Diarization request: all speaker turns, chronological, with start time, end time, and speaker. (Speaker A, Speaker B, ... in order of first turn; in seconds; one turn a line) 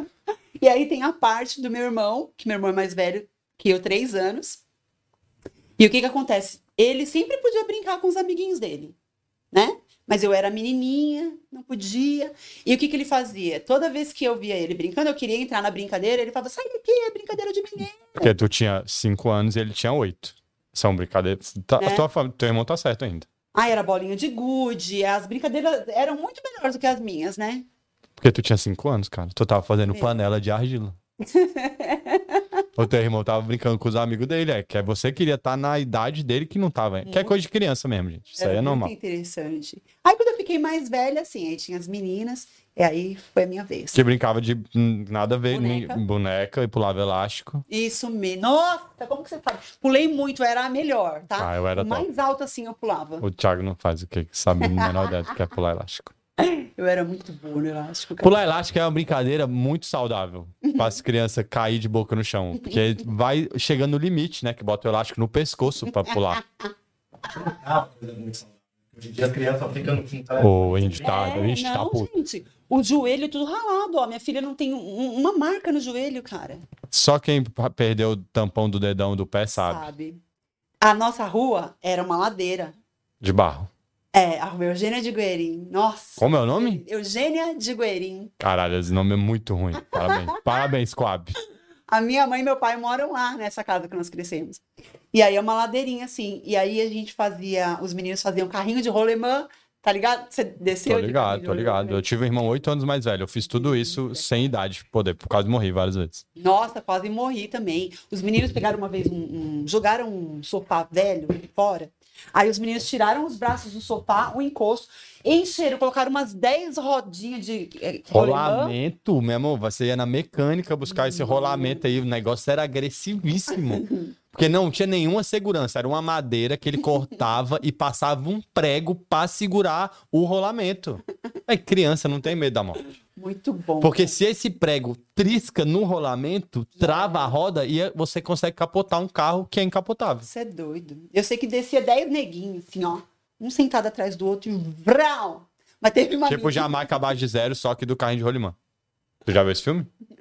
Speaker A: 0.6-4.6
Speaker A: 5.8-8.9
Speaker A: 9.5-18.3
Speaker B: 18.2-23.3
Speaker A: 21.8-22.1
Speaker A: 23.5-27.6
Speaker B: 28.2-30.9
Speaker A: 31.2-32.6
Speaker B: 32.8-38.9
Speaker A: 37.0-37.3
Speaker A: 38.4-44.0
Speaker B: 43.9-47.6
Speaker A: 45.5-46.0
Speaker A: 47.7-53.2
Speaker B: 51.3-52.1
Speaker B: 53.2-56.1
Speaker A: 54.6-55.0
Speaker A: 56.4-58.4
Speaker B: 58.2-66.4
Speaker A: 60.6-61.0
Speaker C: 67.3-71.4
Speaker B: 70.4-72.1
Speaker A: 71.0-76.6
Speaker B: 76.9-79.9
Speaker A: 79.5-80.2
Speaker A: 80.8-82.8
Speaker B: 83.2-83.7
Speaker A: 84.1-88.3
Speaker B: 86.2-86.8
Speaker B: 88.4-91.3
Speaker A: 89.9-90.4
Speaker A: 91.9-94.6
Speaker A: 95.1-102.0
Speaker B: 100.8-106.2
Speaker A: 103.5-104.2
Speaker A: 106.3-118.8
Speaker B: 118.1-132.8
Speaker A: 121.0-121.8
Speaker A: 133.2-134.2
Speaker B: 133.8-140.3
Speaker A: 136.8-137.3
Speaker A: 140.2-146.8
Speaker B: 146.2-148.6
Speaker B: 149.2-149.9